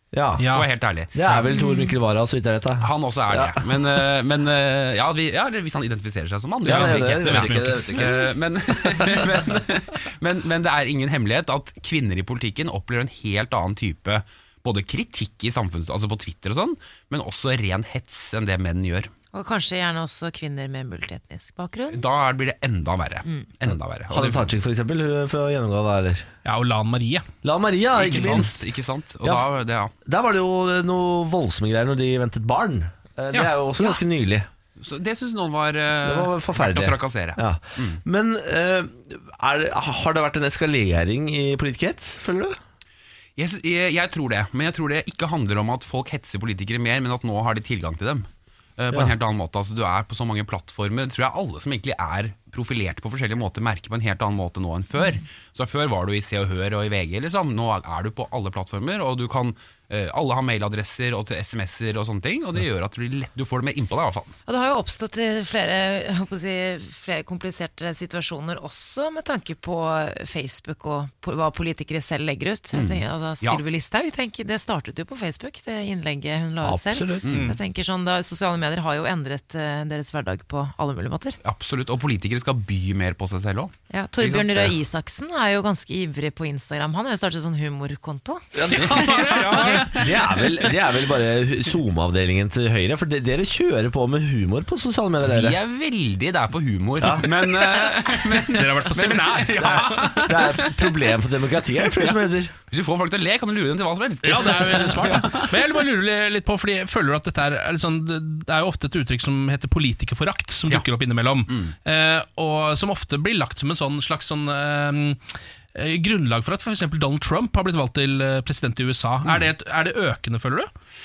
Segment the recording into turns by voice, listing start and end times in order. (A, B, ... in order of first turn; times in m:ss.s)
0:00.1-0:00.5 A
0:00.4-0:00.7 B
0:00.5-0:01.1 C
0:01.1-0:04.0 A
0:02.8-0:19.1 C
0:06.6-0:08.3 A
0:06.6-0:08.0 B
0:08.8-0:09.2 A
0:19.3-0:22.0 D
0:21.9-0:24.5 C
0:23.2-0:23.5 D
0:24.1-0:26.3 A
0:26.4-0:27.2 B
0:27.4-0:28.6 A
0:27.9-0:29.9 C
0:29.2-0:29.5 A
0:30.0-0:34.5 A
0:34.8-0:38.0 C
0:36.0-0:42.6 A
0:43.4-1:04.3 C
1:04.4-1:21.4 D
1:12.7-1:13.6 C
1:16.6-1:17.4 A
1:21.4-1:24.8 C
1:23.9-1:28.5 D
1:28.5-1:35.6 A
1:28.7-1:30.0 B
1:29.7-1:30.0 C
1:35.3-1:40.9 C
1:37.0-1:37.6 A
1:38.5-1:40.2 B
1:39.5-1:42.5 A
1:42.7-1:45.6 C
1:44.2-2:00.7 B
1:51.5-1:51.7 C
1:59.2-1:59.5 C